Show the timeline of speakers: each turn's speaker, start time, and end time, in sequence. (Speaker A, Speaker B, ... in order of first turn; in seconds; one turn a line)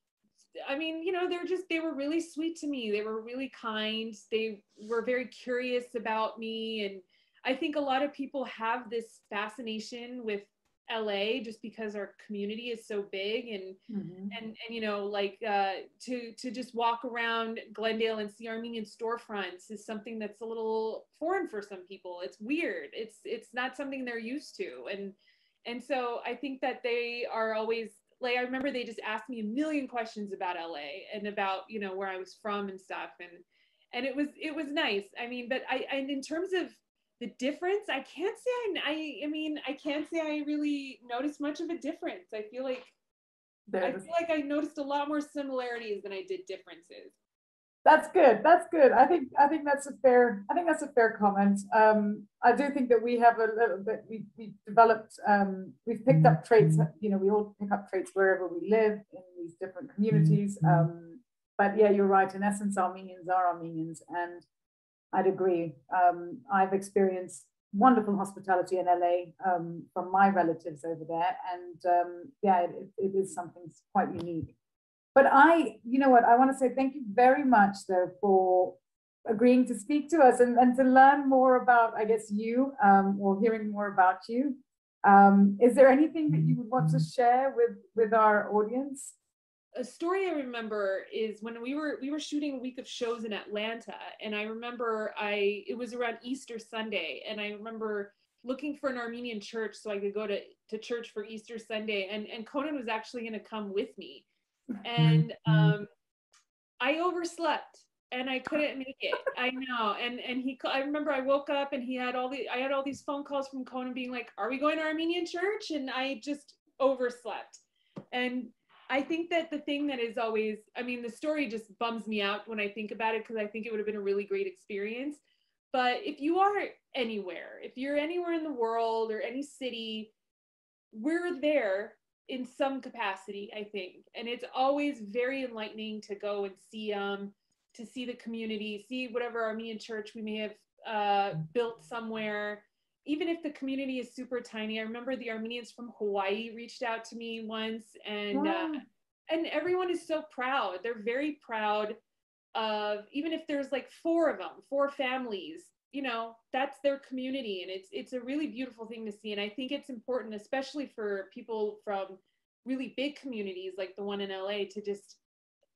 Speaker A: 0.6-13.8
Speaker B: 13.9-14.3
Speaker A: 14.3-42.9
Speaker B: 43.7-44.1
Speaker A: 43.8-47.1
Speaker B: 47.8-64.5
Speaker B: 65.1-74.5
Speaker B: 75.1-89.1
Speaker A: 89.7-104.2
Speaker A: 104.8-105.9
Speaker A: 106.8-130.1
Speaker A: 130.9-152.0
Speaker B: 148.3-148.8
Speaker A: 152.5-165.2